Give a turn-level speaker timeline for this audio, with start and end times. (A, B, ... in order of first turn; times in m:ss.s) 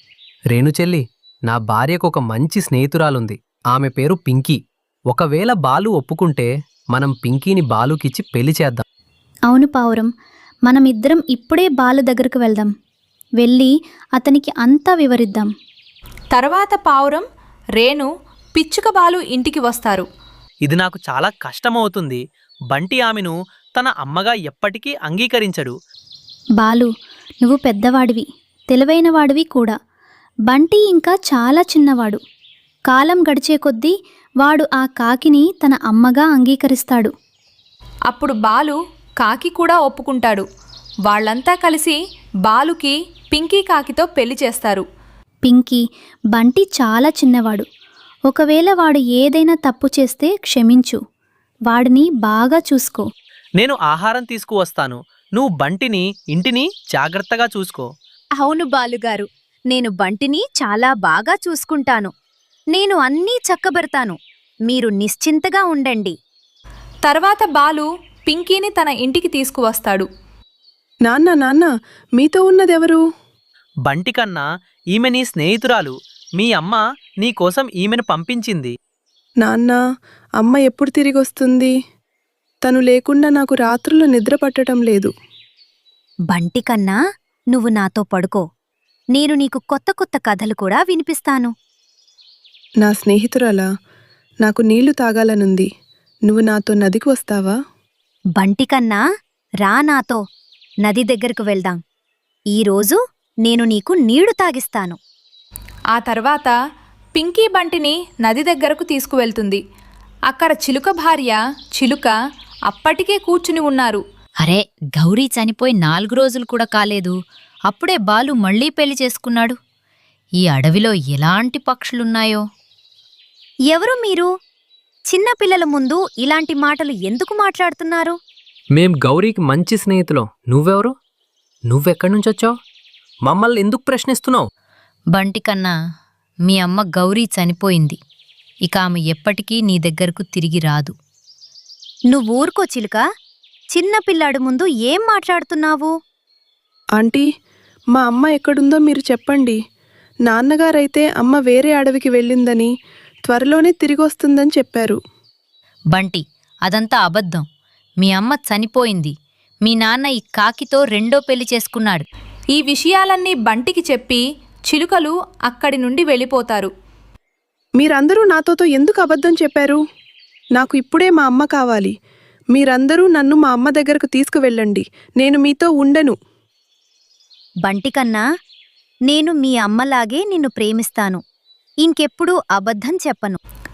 0:00.5-0:04.6 A
0:05.1-0:08.8 A
0:09.5-0:10.1 B
0:10.7-0:12.7 B
0:13.4-0:15.5 B
0:16.3-0:17.2 C
0:17.8-0:20.0 C
0:20.6-0:22.2 D
0:22.7-0:25.7 D
0:26.6-0:26.9 B
0:27.4-0:29.8 B
0:30.5-0:32.2 B
0:32.9-0:37.1 B
0:38.1-0:40.4 C
0:41.1-0:44.8 C
0:45.5-0:47.7 B
0:48.3-0:51.0 B
0:51.7-0:53.1 B
0:53.6-0:57.9 D
0:58.4-1:02.1 E
1:02.7-1:06.1 E
1:07.0-1:10.1 C
1:11.1-1:13.0 F
1:13.9-1:18.7 D
1:19.4-1:19.8 F
1:20.4-1:21.7 F
1:22.6-1:25.1 F
1:26.3-1:27.0 E
1:27.5-1:28.4 E
1:29.1-1:31.5 E
1:32.8-1:33.7 F
1:34.4-1:35.7 F
1:36.3-1:37.6 F
1:38.4-1:39.0 E
1:39.6-1:40.2 E
1:40.8-1:41.8 E
1:42.5-1:45.0 E
1:45.9-1:46.5 C
1:47.2-1:49.6 C
1:50.3-1:52.1 C
1:52.7-1:54.0 C
1:54.4-1:57.2 G
1:57.7-1:59.6 G
2:00.4-2:02.4 G
2:03.7-2:04.3 E
2:05.1-2:08.2 E
2:08.8-2:10.9 A
2:11.7-2:12.5 A
2:13.3-2:14.5 A
2:15.1-2:15.7 G
2:16.4-2:18.0 G
2:18.6-2:20.9 G
2:22.1-2:23.0 E
2:23.7-2:25.9 E
2:27.0-2:27.3 F
2:27.9-2:29.6 F
2:30.3-2:32.7 F
2:33.3-2:35.0 F
2:35.9-2:37.5 G
2:38.0-2:39.1 G
2:39.6-2:42.0 G
2:42.5-2:46.7 C
2:47.8-2:49.8 F
2:50.6-2:51.9 F
2:52.5-2:56.2 F
2:57.6-2:58.2 E
2:59.1-3:01.2 E
3:01.8-3:03.4 E